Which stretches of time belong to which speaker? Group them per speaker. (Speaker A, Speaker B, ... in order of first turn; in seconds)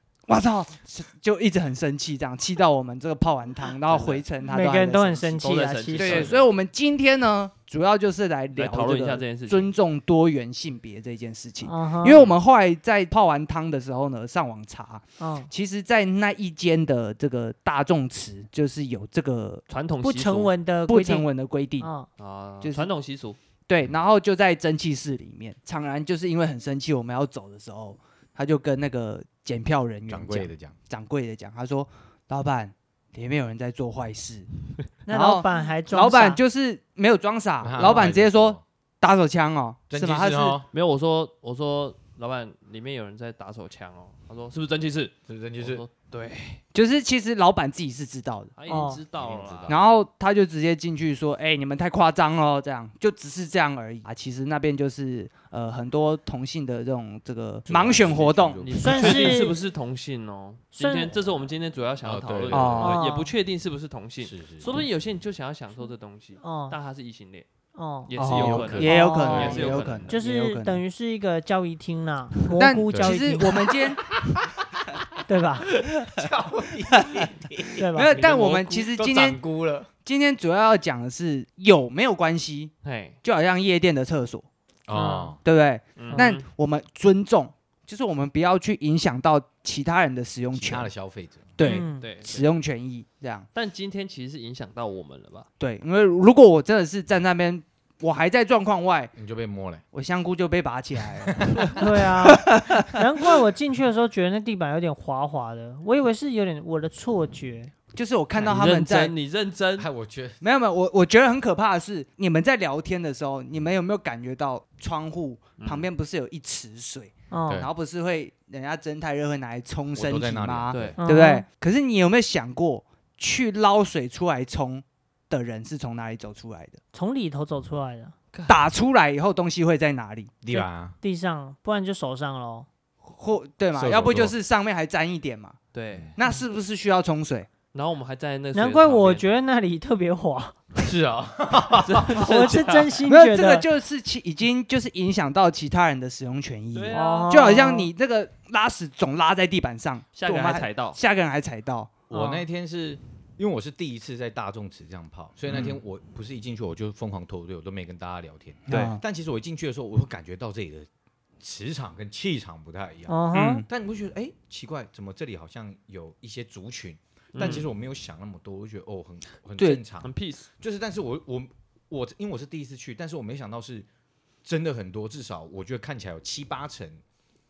Speaker A: 0.3-5.4, 6.0-19.6, 20.9-21.9, 22.6-22.9, 23.7-34.5, 35.1-40.6, 46.7-48.5, 49.7-59.3, 62.5-63.0, 68.2-70.8, 72.5-74.1, 77.9-79.4, 80.0-82.7, 83.2-84.5, 85.4-90.9, 91.6-93.5, 95.6-99.1, 99.9-103.0, 107.9-109.1, 110.4-126.8, 128.5-130.3, 133.0-135.6, 136.2-137.5, 143.1-151.9, 155.5-155.8, 158.7-159.0, 163.3-163.7, 167.4-167.7
Speaker B: 3.9-4.2, 5.4-6.5, 8.6-9.7, 19.7-20.5, 22.2-23.4, 40.7-46.6, 48.6-49.8, 58.6-67.5, 68.1-70.1, 78.3-78.6, 82.8-83.2, 86.0-86.4, 91.6-92.5, 93.5-95.5, 108.4-109.9, 115.6-115.9, 120.7-121.0, 128.3-128.6, 135.7-136.1, 137.7-139.2, 141.8-143.0, 146.7-147.5, 150.2-151.0, 167.3-167.7, 170.0-170.5
Speaker C: 4.5-6.3, 11.6-12.2, 15.2-15.5, 20.0-21.3, 21.8-22.1, 35.1-36.4, 48.7-49.0, 58.8-59.6, 60.8-61.2, 62.8-63.3, 66.4-66.8, 67.8-68.1, 68.8-69.5, 70.1-73.7, 75.3-75.7, 77.8-78.3, 84.9-85.3, 91.6-92.1, 101.8-107.7, 117.3-117.7, 121.0-121.5, 126.9-128.2, 130.5-132.7, 138.6-140.6, 142.2-143.7, 146.9-147.9, 152.1-152.4, 163.1-163.6
Speaker D: 30.1-30.8, 37.6-38.6, 39.9-40.7, 45.3-45.8, 49.2-49.9, 57.7-59.3, 62.0-63.0, 64.2-64.7, 68.3-69.9, 72.9-73.5, 74.2-75.0, 76.0-79.9, 84.9-85.4, 90.5-91.5, 99.2-99.8, 101.3-101.7, 109.8-110.4, 119.9-121.0, 130.4-131.0, 133.7-134.3, 140.8-142.3, 152.1-160.9, 161.4-173.9, 174.4-177.0